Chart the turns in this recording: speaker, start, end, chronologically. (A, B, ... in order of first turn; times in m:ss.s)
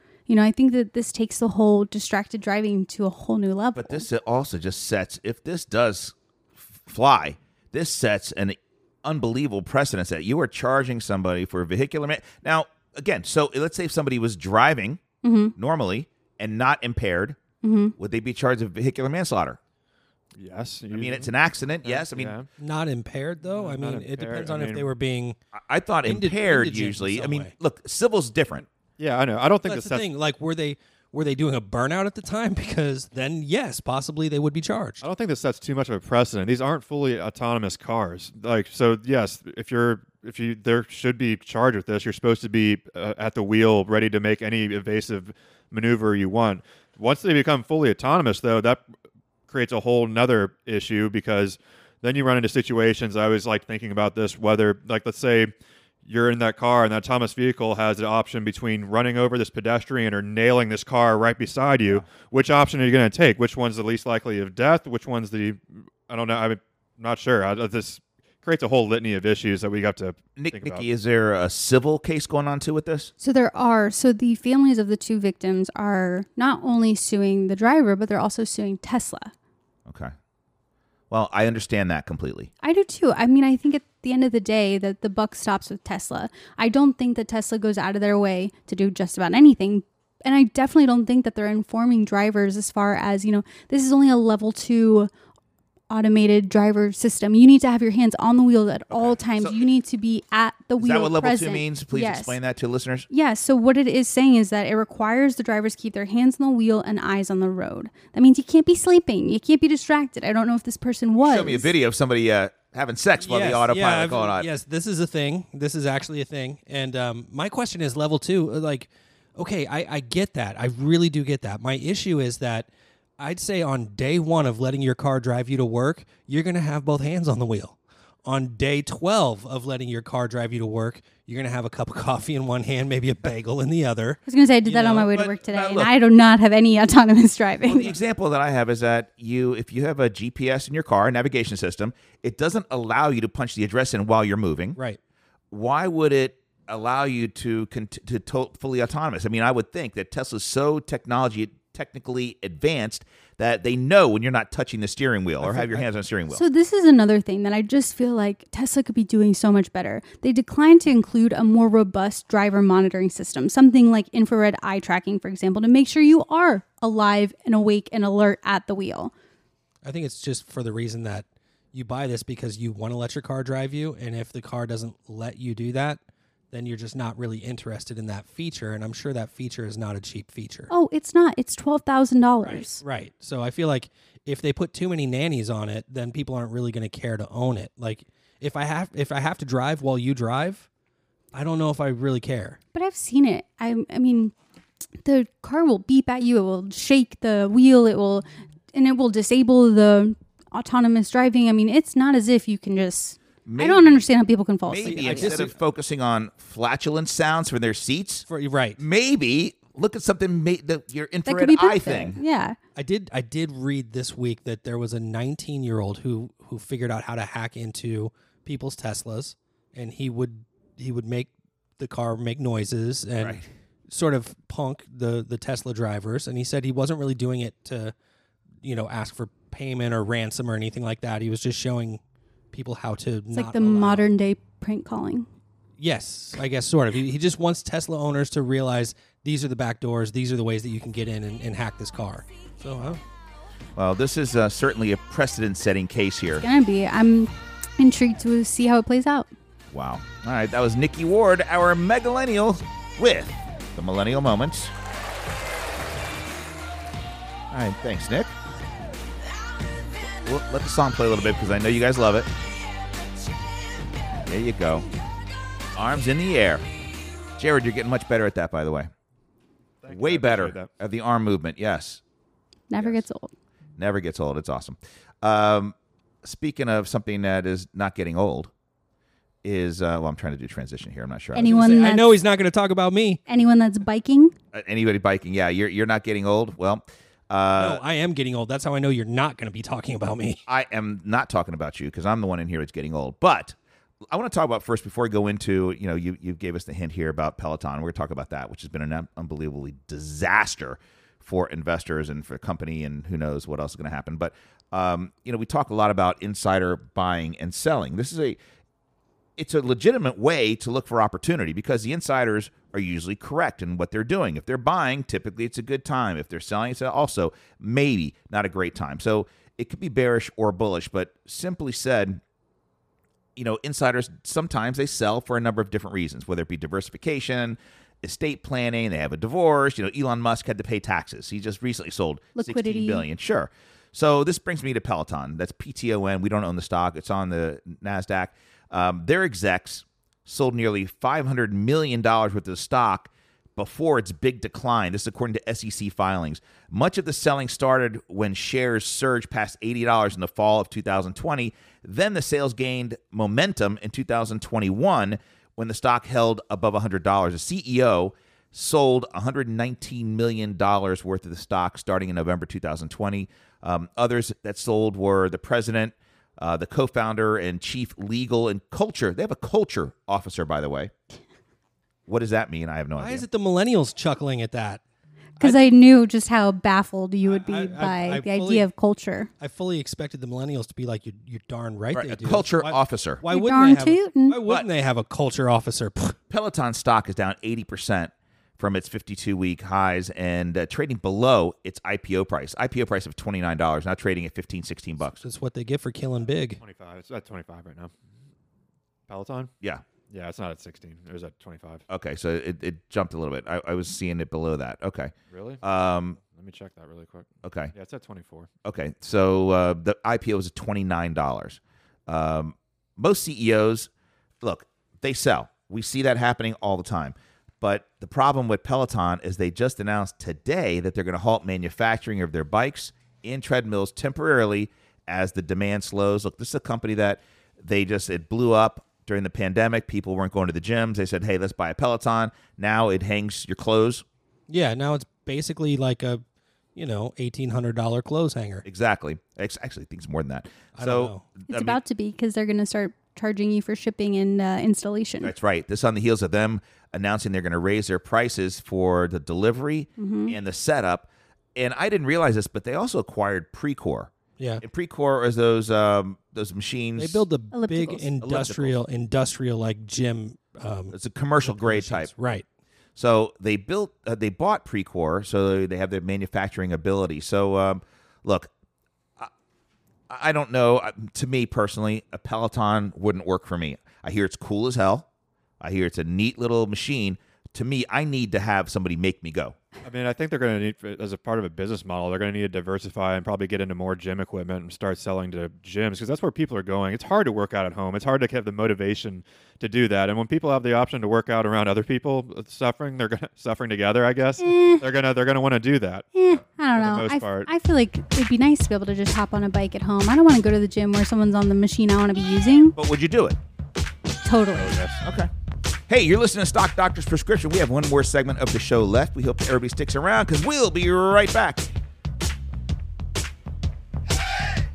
0:00.3-0:04.1 A
0:03.8-0:15.0 B
0:15.2-0:15.6 A
0:15.6-0:17.4 B
0:17.6-0:18.0 A
0:18.0-0:19.6 B
0:20.4-0:21.3 C
0:20.9-0:22.4 B
0:21.8-0:22.5 C
0:22.6-0:25.4 D
0:23.4-0:24.9 C
0:25.5-0:28.7 B
0:26.0-0:27.5 D
0:29.0-0:30.1 C
0:29.7-0:35.0 D
0:35.0-0:48.8 C
0:49.5-0:55.5 C
0:56.0-1:10.8 C
1:10.4-1:13.1 B
1:13.2-1:19.3 A
1:19.9-1:20.1 B
1:21.1-1:22.5 B
1:22.6-1:35.1 A
1:35.9-1:42.4 A
1:38.9-1:39.6 B
1:40.8-1:43.1 B
1:43.1-1:51.7 A
1:51.2-1:54.5 B
1:53.2-2:15.1 D
2:14.3-2:17.9 A
2:14.8-2:15.9 B
2:17.6-2:24.8 B
2:25.5-2:36.4 B
2:35.4-2:35.9 D
2:36.3-2:49.1 A
2:49.8-2:56.0 D
2:56.5-3:00.7 D
3:00.7-3:02.8 A
3:02.4-3:10.7 D
3:11.3-3:12.6 D
3:12.7-3:14.3 A
3:15.0-3:25.5 A
3:23.5-3:24.0 B
3:24.7-3:32.2 B
3:24.8-3:25.6 D
3:28.3-3:28.8 D
3:31.3-3:32.6 A
3:32.8-3:48.0 D
3:43.2-3:43.5 B
3:48.6-3:52.0 D
3:52.5-3:54.1 D
3:53.3-3:55.3 A
3:55.8-4:03.0 D
4:03.8-4:06.4 B
4:06.4-4:09.3 A
4:09.7-4:14.7 B
4:17.5-4:18.3 B
4:20.0-4:22.3 B
4:24.2-4:24.9 B
4:25.8-4:26.7 B
4:27.4-4:28.9 B
4:29.8-4:30.7 C
4:29.9-4:32.0 B
4:32.7-4:33.3 A
4:33.8-4:38.5 B
4:39.4-4:41.6 B
4:41.3-4:42.2 A
4:41.4-4:43.2 D
4:43.3-4:44.3 A
4:44.5-4:47.8 B
4:47.6-4:50.4 D
4:50.5-4:53.6 B
4:54.1-5:08.4 B
5:09.4-5:22.2 B
5:23.4-6:10.9 B
5:32.4-5:33.0 A
6:12.1-6:13.3 B
6:13.0-6:14.8 D
6:15.4-6:19.3 A
6:17.3-6:18.7 D
6:19.4-6:26.2 D
6:21.9-6:23.2 B
6:23.3-6:24.4 A
6:26.3-6:35.2 B
6:35.2-6:36.6 D
6:36.6-6:37.9 C
6:39.1-6:39.5 C
6:40.1-6:41.8 C
6:41.9-6:46.2 B
6:45.3-6:45.6 C
6:46.2-6:48.5 C
6:47.4-6:47.7 B
6:48.6-6:53.9 B
6:54.4-7:14.0 B
7:14.5-7:16.2 D
7:16.8-7:18.6 D
7:18.6-7:21.8 B
7:20.8-7:21.2 D
7:21.5-7:25.3 A
7:25.2-7:34.1 B
7:30.0-7:30.4 A
7:34.6-7:37.2 B
7:37.0-7:42.5 D
7:37.5-7:38.1 A
7:38.2-7:38.8 B
7:40.9-7:42.1 B
7:43.0-7:48.5 B
7:50.1-7:55.1 B
7:55.6-7:59.6 B
7:59.8-8:16.1 C
8:14.4-8:14.9 A
8:16.2-8:22.8 A
8:16.7-8:17.5 C
8:22.8-8:23.4 B
8:24.2-8:24.8 A
8:24.5-8:25.0 C
8:25.0-8:25.3 B
8:25.9-8:31.7 B